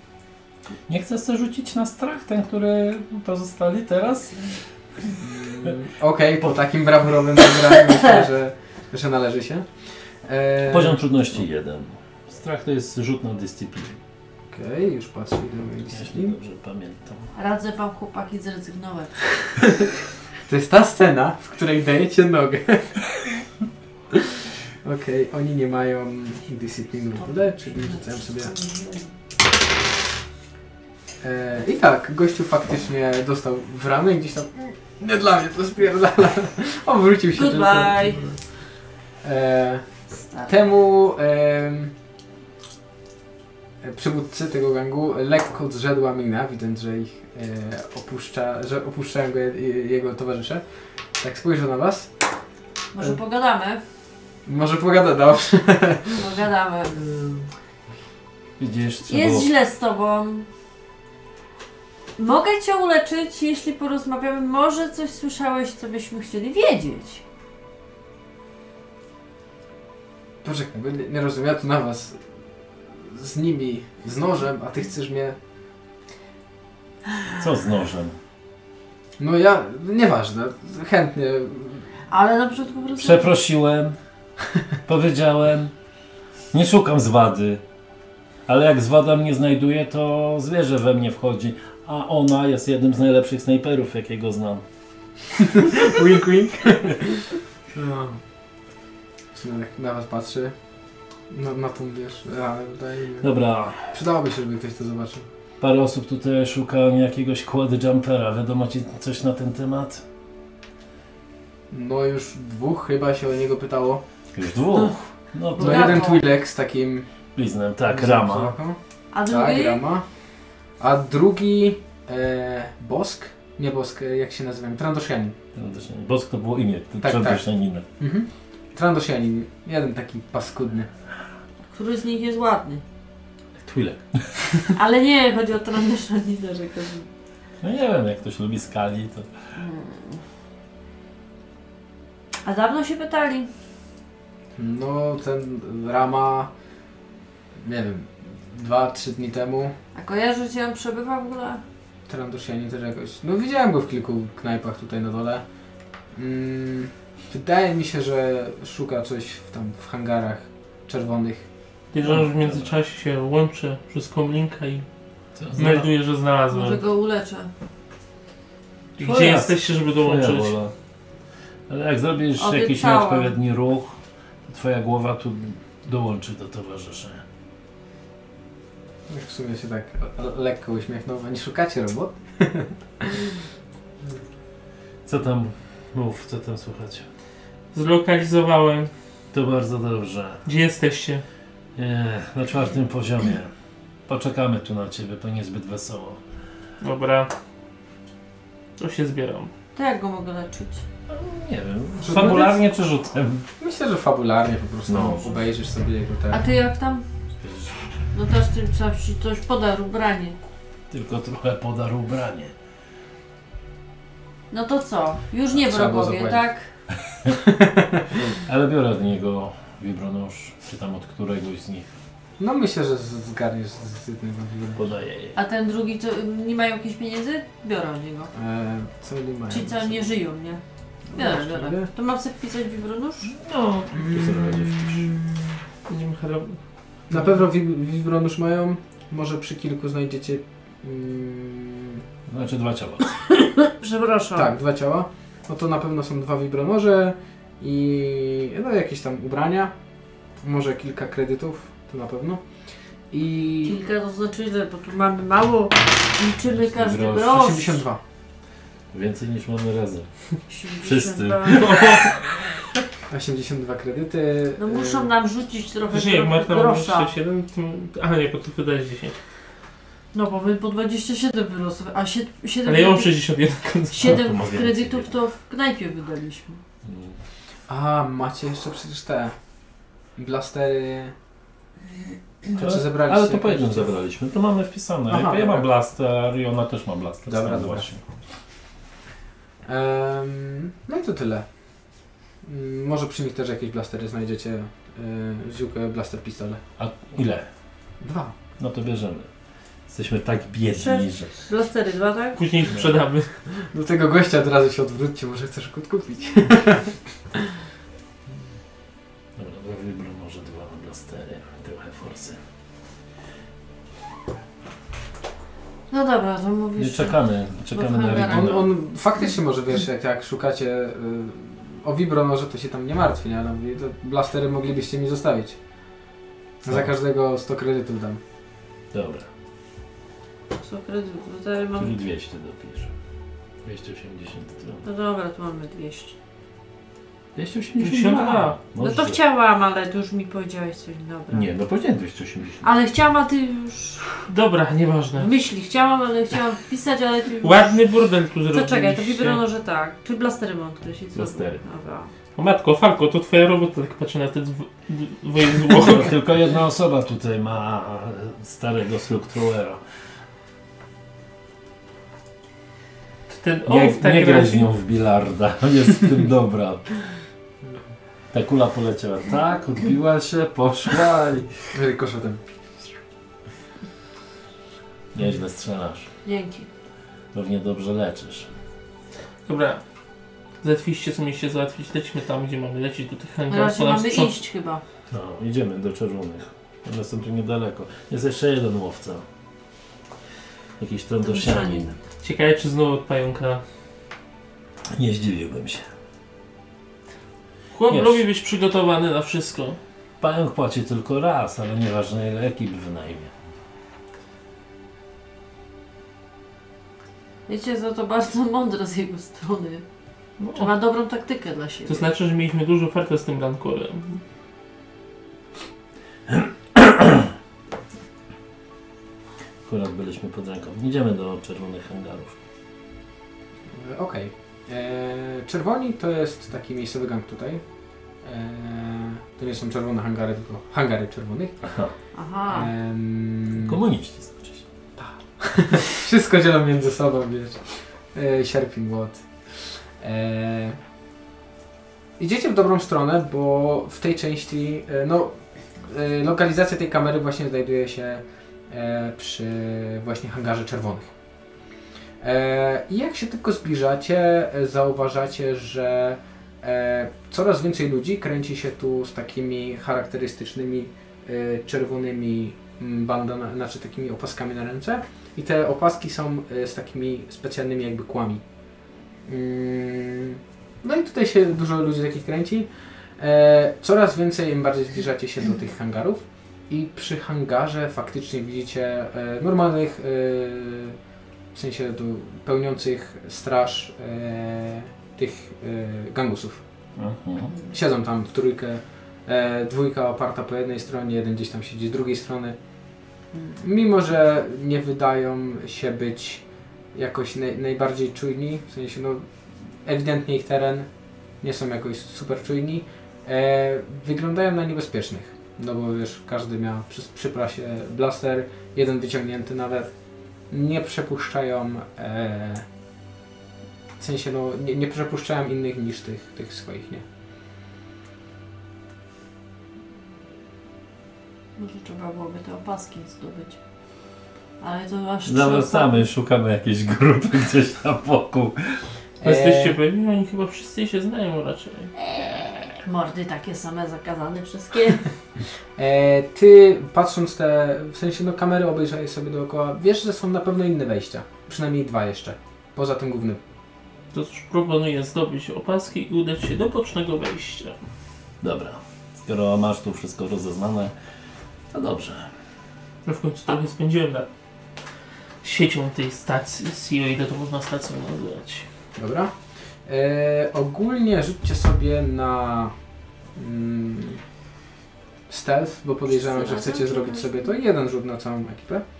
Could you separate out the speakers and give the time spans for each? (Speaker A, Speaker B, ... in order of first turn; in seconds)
Speaker A: 0.9-4.6, 10.7-14.0, 15.9-17.3, 58.6-59.5, 77.3-78.2, 83.0-84.0, 84.8-85.7, 86.5-87.6, 88.5-94.6, 103.2-103.9, 105.6-110.0, 114.3-116.0, 117.3-118.5, 125.5-127.8, 133.6-134.5, 137.6-139.3, 162.0-162.8, 165.3-165.9, 169.0-170.7, 171.7-177.2, 185.0-187.1, 189.3-190.4, 191.8-193.5, 194.1-196.2, 201.1-203.5, 204.9-205.4, 207.4-207.8, 210.9-212.5, 218.2-221.9, 224.8-225.4, 233.3-235.1, 242.3-243.1, 256.4-257.4, 258.9-260.1, 260.8-262.5, 274.0-275.1, 276.8-277.2, 282.5-288.0, 296.8-297.4, 298.6-299.3, 299.9-301.4, 302.6-303.0, 309.4-312.4, 316.8-318.7, 328.9-329.3, 331.8-332.9, 333.6-334.8, 337.3-339.2, 341.3-342.7, 351.1-351.6, 355.7-359.8, 363.6-366.9, 368.3-371.7, 375.1-376.1, 377.3-378.5, 385.1-389.2, 390.8-391.9, 394.9-395.8, 397.9-398.2, 400.2-403.3, 416.3-417.3, 419.6-422.4, 431.6-431.9, 433.6-434.6, 486.9-487.5, 525.2-528.8, 548.4-550.9, 551.7-552.3
Speaker B: 5.2-9.7, 10.2-11.0, 14.5-16.4, 20.4-23.4, 24.1-28.5, 31.2-38.4, 39.2-39.8, 40.5-41.9, 43.8-50.6, 51.2-52.1, 54.5-56.2, 57.0-57.5, 70.4-72.2, 72.9-75.3, 79.2-81.9, 95.4-98.2, 99.3-100.5, 101.3-103.3, 103.8-105.2, 111.7-114.0, 115.6-117.1, 117.9-120.0, 120.8-125.3, 127.0-127.4, 128.0-130.9, 144.6-146.5, 147.6-149.7, 152.1-155.4, 156.1-161.5, 179.1-183.3, 202.0-202.6, 203.6-206.4, 215.5-216.5, 217.4-218.1, 222.4-224.8, 228.3-230.1, 231.1-231.9, 233.9-235.5, 237.1-242.0, 244.3-249.7, 250.4-252.4, 253.1-253.8, 257.3-258.0, 263.1-265.1, 277.7-279.3, 280.2-281.1, 282.5-283.9, 285.1-285.7, 287.3-287.9, 289.6-291.5, 292.4-296.6, 298.0-298.3, 303.5-307.5, 318.2-325.6, 326.6-328.2, 371.7-372.4, 423.7-427.6, 428.2-431.6, 432.5-433.8, 435.0-440.8, 442.2-451.1, 452.2-468.4, 469.3-481.0, 481.5-486.6, 487.7-492.6, 493.6-499.3, 499.8-500.9, 501.4-509.9, 510.5-512.6, 514.0-517.0, 529.2-529.8, 535.8-543.4, 559.0-559.3, 559.9-562.7, 563.4-564.2, 565.3-568.8
Speaker C: 17.3-19.3, 27.7-29.1, 37.3-38.2, 52.9-53.8, 56.1-57.0, 59.1-60.5, 62.2-67.2, 82.1-83.3, 115.5-116.2, 119.1-119.8, 131.7-132.8, 134.7-137.1, 139.6-140.2, 142.4-143.5, 149.9-151.6, 166.5-167.5, 172.4-173.3, 199.7-200.8, 206.3-207.0, 208.1-210.4, 214.5-216.7, 225.3-228.3, 229.5-230.6, 231.1-233.3, 243.6-244.5, 253.6-257.8, 260.5-261.8, 264.6-267.1, 270.1-273.1, 273.9-276.6, 300.7-302.4, 315.9-318.6, 330.5-331.9, 334.8-336.1, 338.8-341.5, 342.6-344.2, 345.2-347.8, 348.5-352.1, 376.2-376.7, 383.5-384.8, 391.2-392.0, 407.5-409.8, 410.5-412.1, 432.1-432.7, 521.6-523.6, 524.6-526.0, 532.0-535.1, 566.2-567.5
Speaker D: 161.9-164.8, 165.6-166.8, 169.0-170.5, 187.7-188.9, 190.4-191.2, 196.8-197.3, 198.8-199.5, 202.1-202.5, 235.8-236.6, 261.5-262.1, 265.9-269.1, 272.6-274.2, 302.4-303.3, 337.8-338.6, 344.3-345.3, 347.4-349.4, 352.3-356.1, 363.3-364.6, 379.4-379.8, 380.6-384.3, 392.2-393.6, 397.7-399.8, 410.4-410.7, 411.9-414.2, 529.2-531.9, 544.1-547.8, 553.0-554.3, 555.4-558.6